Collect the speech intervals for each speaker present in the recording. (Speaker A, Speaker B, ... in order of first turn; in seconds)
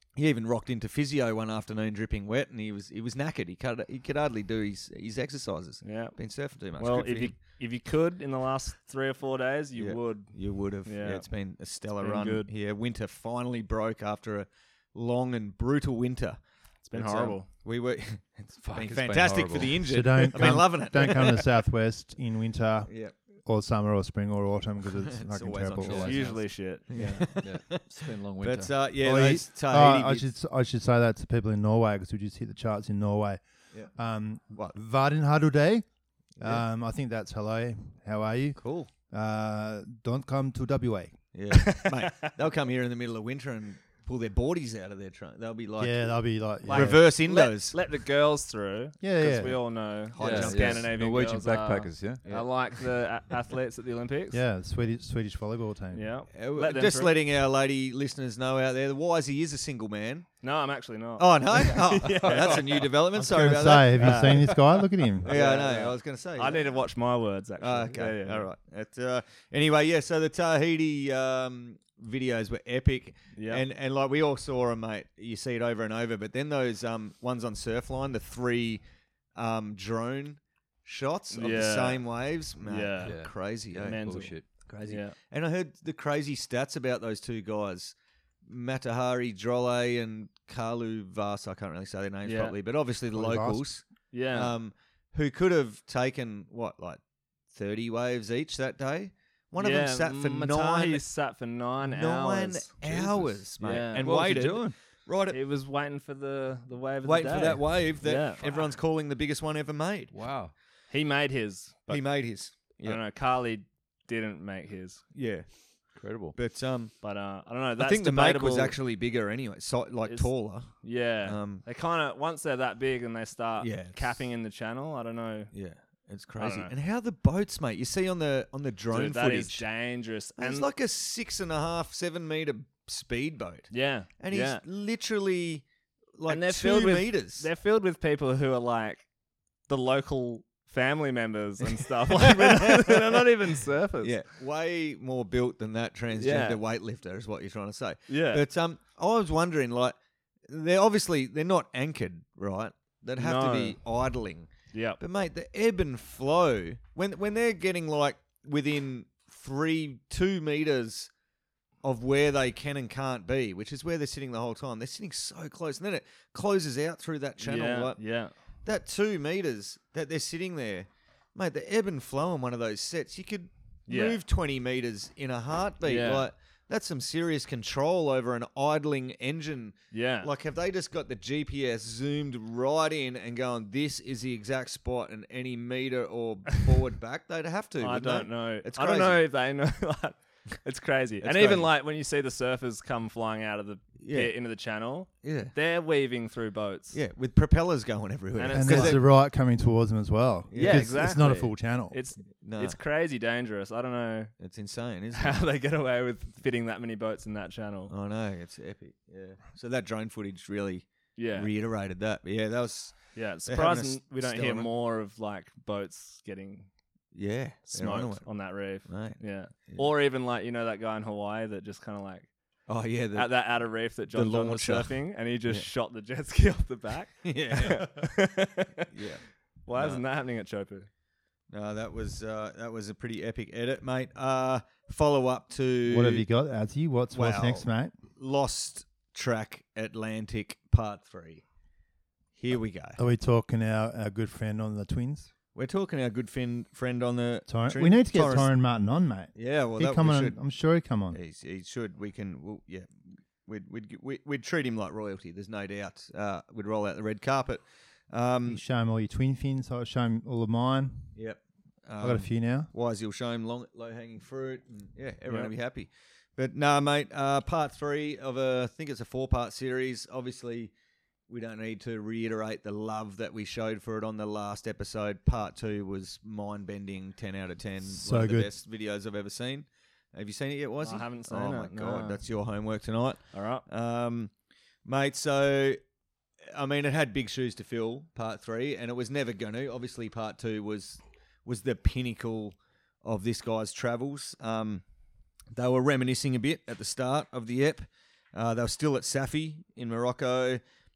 Speaker A: 0.1-7.4, 9.8-16.4, 16.9-21.4, 22.9-23.1, 25.1-27.8, 28.4-30.3, 38.6-38.9, 41.3-47.7, 50.1-50.9, 52.2-52.5, 56.3-60.3, 61.2-64.5, 65.2-66.7, 67.6-78.8, 79.3-101.0, 101.8-105.4, 107.0-110.1, 111.9-113.0, 115.1-115.5, 116.3-116.9, 117.8-120.7, 121.2-121.6, 123.6-124.1, 125.5-129.6, 130.4-135.7, 136.2-137.5, 142.1-143.1, 144.0-150.0, 150.5-161.1, 161.8-168.0, 168.6-189.2, 191.2-191.7, 194.0-194.3, 195.2-195.5, 196.9-199.0, 200.5-200.9, 202.3-202.8, 204.4-205.4, 207.9-214.7, 217.1-219.8, 222.7-223.3, 224.1-224.9, 227.2-228.0, 228.9-229.2, 229.7-230.0, 231.5-236.3, 237.1-241.4, 242.3-243.0, 245.5-248.5, 249.3-250.4, 251.1-258.6, 261.1-270.7, 271.3-284.3, 284.8-285.8, 286.5-294.8, 295.5-300.6
Speaker B: 5.8-6.2, 6.8-11.3, 12.0-12.5, 16.8-17.5, 25.9-27.3, 41.5-42.3, 46.7-54.4, 55.9-57.1, 60.4-62.9, 64.0-68.5, 73.3-73.6, 81.3-82.0, 82.6-83.2, 83.8-85.1, 92.2-92.5, 94.1-94.5, 99.6-104.1, 105.3-108.7, 110.9-112.0, 112.6-115.0, 117.0-118.8, 120.0-125.5, 126.4-126.7, 128.9-130.7, 133.7-134.6, 136.2-139.1, 139.7-144.2, 146.1-146.6, 148.1-148.4, 153.2-153.8, 154.7-155.0, 167.4-168.3, 173.9-174.2, 175.8-176.3, 179.9-180.3, 187.8-197.0, 198.3-199.0, 200.5-204.3, 205.1-207.9, 211.1-211.5, 213.1-216.7, 217.7-222.3, 223.1-228.9, 229.7-230.9, 280.8-282.2, 283.3-283.6
Speaker C: 18.6-19.8, 25.8-26.2, 26.9-28.7, 50.2-52.2, 62.2-62.8, 83.0-84.4, 102.9-103.4, 103.9-104.7, 110.1-110.5, 116.0-116.3
Speaker D: 19.8-22.9, 23.4-26.2, 29.0-33.4, 33.9-35.8, 36.4-41.2, 45.8-47.0, 49.0-49.6, 54.3-56.0, 63.1-65.3, 93.1-93.7, 198.5-202.0, 235.8-237.9, 243.0-245.3, 247.5-251.2, 258.5-261.1, 262.0-262.7, 277.8-278.5